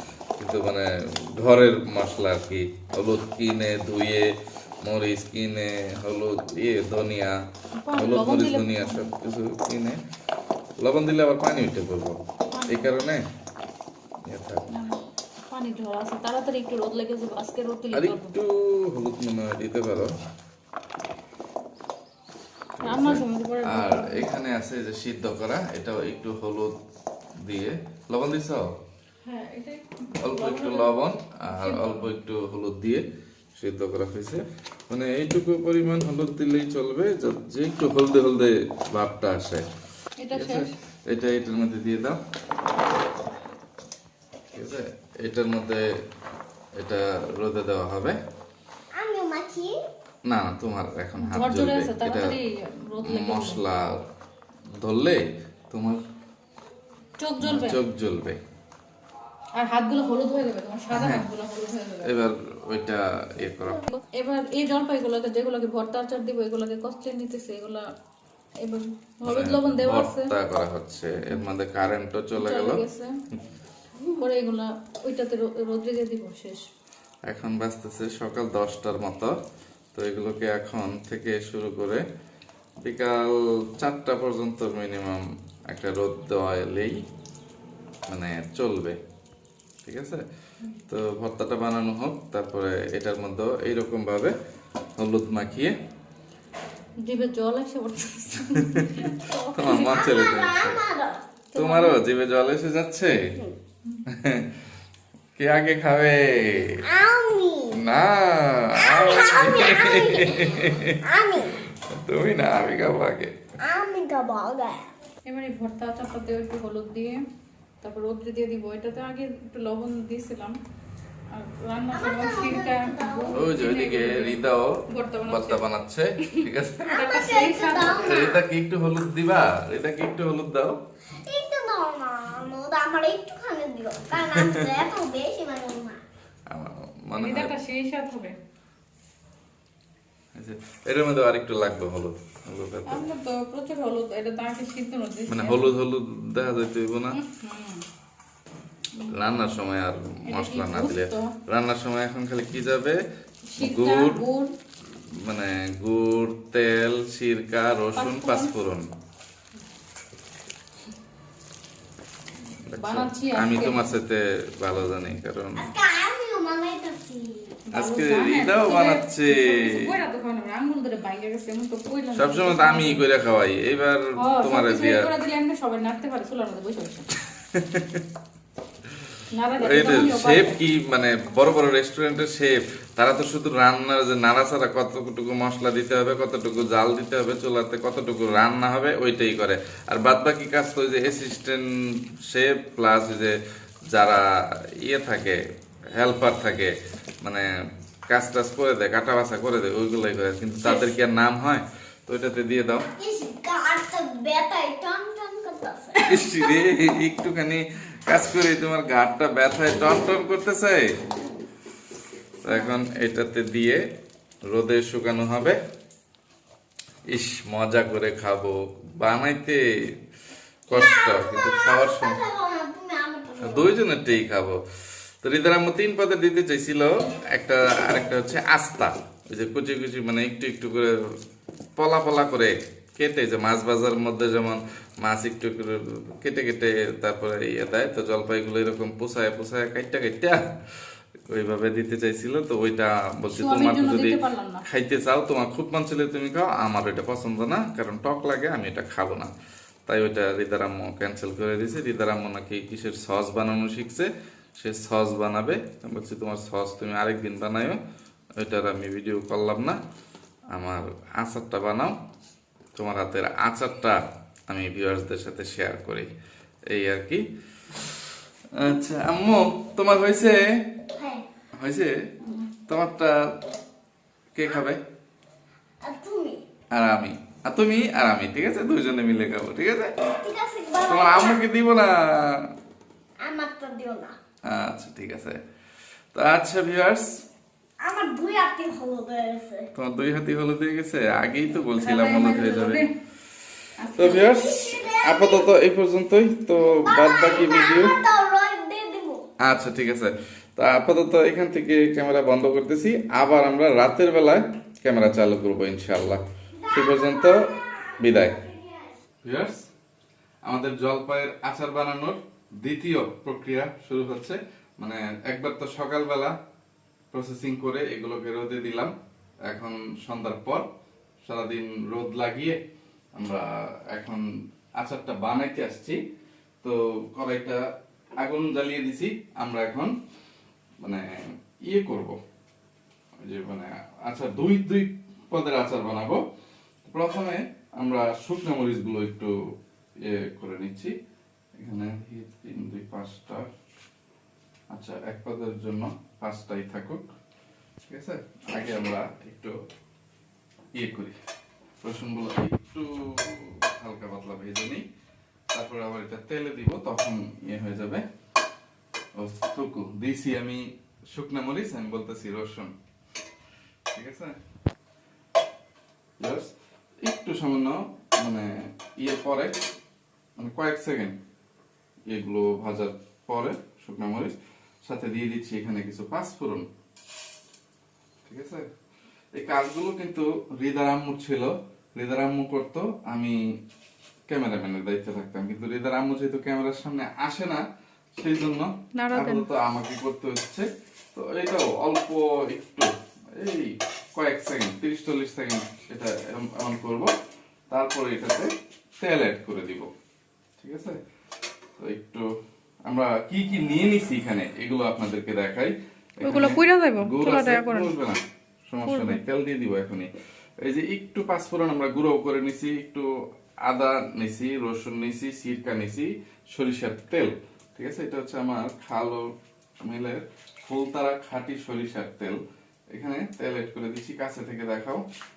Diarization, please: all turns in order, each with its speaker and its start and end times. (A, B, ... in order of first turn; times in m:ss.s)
0:00.4-0:04.3 A
0:04.8-0:07.4 A
0:07.8-0:09.2 B
0:07.9-0:10.0 A
0:10.8-0:13.2 A
0:12.5-0:12.9 B
0:14.2-0:14.7 A
0:14.7-0:18.3 B
0:17.9-0:20.1 A
0:22.8-0:26.8 A
0:22.8-0:24.3 B
0:27.4-0:28.7 A
0:29.2-0:31.0 B
0:30.2-0:33.0 A
0:31.5-0:32.1 B
0:33.6-0:39.6 A
0:40.2-0:40.7 B
0:40.3-0:42.2 A
0:44.5-0:45.8 A
0:46.8-0:48.2 A
0:48.9-0:49.8 C
0:50.3-0:52.4 A
0:51.2-0:53.6 B
0:53.0-0:54.0 A
0:54.8-0:56.0 A
0:57.2-0:57.8 B
0:57.4-0:58.4 A
0:59.6-1:02.2 B
1:00.9-1:01.2 A
1:02.0-1:03.8 A
1:03.9-1:07.9 B
1:08.6-1:10.3 B
1:09.2-1:12.8 A
1:12.4-1:13.1 B
1:14.0-1:14.2 C
1:14.2-1:16.7 B
1:17.3-1:19.4 A
1:19.9-1:22.0 A
1:22.8-1:27.0 A
1:28.1-1:29.0 A
1:29.8-1:30.2 A
1:30.9-1:34.3 A
1:35.0-1:35.7 A
1:37.0-1:40.0 B
1:38.4-1:40.8 A
1:39.6-1:41.2 C
1:41.5-1:42.0 B
1:41.6-1:43.3 A
1:44.1-1:44.6 A
1:45.4-1:46.8 A
1:46.8-1:47.8 C
1:47.8-1:51.0 A
1:48.8-1:51.6 C
1:51.9-1:53.3 A
1:53.6-1:54.9 C
1:55.2-1:57.2 B
1:57.8-2:00.5 B
2:01.3-2:05.6 B
2:01.9-2:03.4 C
2:03.3-2:04.8 A
2:05.3-2:07.1 A
2:06.2-2:08.2 B
2:06.8-2:08.4 C
2:08.0-2:10.7 A
2:11.1-2:16.0 C
2:14.2-2:14.7 A
2:16.5-2:17.5 A
2:17.2-2:18.4 B
2:20.3-2:23.0 A
2:22.9-2:25.7 B
2:25.3-2:27.2 A
2:27.1-2:27.8 B
2:29.1-2:33.0 A
2:30.3-2:31.3 B
2:33.5-2:34.5 B
2:33.6-2:34.2 A
2:35.2-2:38.9 A
2:38.0-2:38.5 B
2:42.7-2:45.7 A
2:42.8-2:43.9 B
2:45.6-2:47.6 C
2:47.7-2:53.0 B
2:47.7-2:49.9 A
2:52.2-2:55.1 A
2:54.2-2:57.1 B
2:57.3-2:58.0 A
2:59.3-3:00.5 B
2:59.6-3:13.4 A
3:13.9-3:15.4 A
3:15.9-3:17.5 A
3:18.1-3:22.9 A
3:22.9-3:26.3 C
3:26.1-3:30.9 A
3:32.4-3:33.9 A
3:32.5-3:32.8 B
3:34.5-3:35.6 A
3:37.1-3:39.6 A
3:40.7-3:42.2 A
3:40.7-3:43.8 C
3:43.4-3:44.6 A
3:45.2-3:51.0 A
3:51.8-4:00.5 A
4:01.3-4:09.3 A
4:03.4-4:04.6 B
4:09.9-4:17.8 A
4:18.4-4:19.8 A
4:20.5-4:22.0 A
4:22.8-4:26.1 A
4:26.7-4:30.8 A
4:30.9-4:31.2 C
4:31.6-4:32.1 A
4:32.7-4:33.4 A
4:34.3-4:34.8 A
4:35.8-4:36.4 C
4:36.7-4:39.9 A
4:40.2-4:41.4 C
4:40.9-4:42.5 A
4:43.2-4:44.2 C
4:44.4-4:45.4 A
4:46.1-4:47.2 A
4:47.8-4:49.7 C
4:49.7-4:52.8 A
4:51.8-4:52.9 B
4:53.8-4:54.2 B
4:53.9-4:58.0 A
4:54.0-4:55.5 C
4:56.6-4:59.2 C
4:59.4-5:08.4 A
5:06.5-5:09.0 C
5:09.2-5:09.7 A
5:10.4-5:16.4 A
5:17.1-5:18.9 A
5:19.4-5:20.7 A
5:21.2-5:22.6 A
5:23.2-5:26.0 A
5:26.6-5:27.6 A
5:28.2-5:30.0 A
5:30.8-5:32.2 A
5:33.2-5:36.2 A
5:36.8-5:39.3 A
5:40.0-5:40.9 A
5:41.6-5:43.5 A
5:44.7-5:47.1 A
5:47.9-5:49.6 A
5:50.7-5:51.2 A
5:51.8-5:54.8 A
5:55.5-5:58.0 A
5:59.2-6:02.7 A
6:03.9-6:04.4 A
6:06.2-6:06.5 A
6:07.0-6:09.6 A
6:10.4-6:11.2 A
6:12.1-6:16.7 A
6:18.3-6:18.7 A
6:19.3-6:23.4 A
6:24.3-6:27.6 A
6:28.2-6:37.1 A
6:29.0-6:29.4 B
6:37.7-6:38.5 A
6:39.0-6:39.9 A
6:40.6-6:41.0 A
6:41.8-6:42.3 A
6:42.8-6:50.1 A
6:46.2-6:47.9 B
6:48.8-6:49.2 B
6:50.6-6:53.1 A
6:53.6-6:59.3 A
6:59.8-7:02.4 A
7:02.9-7:05.0 A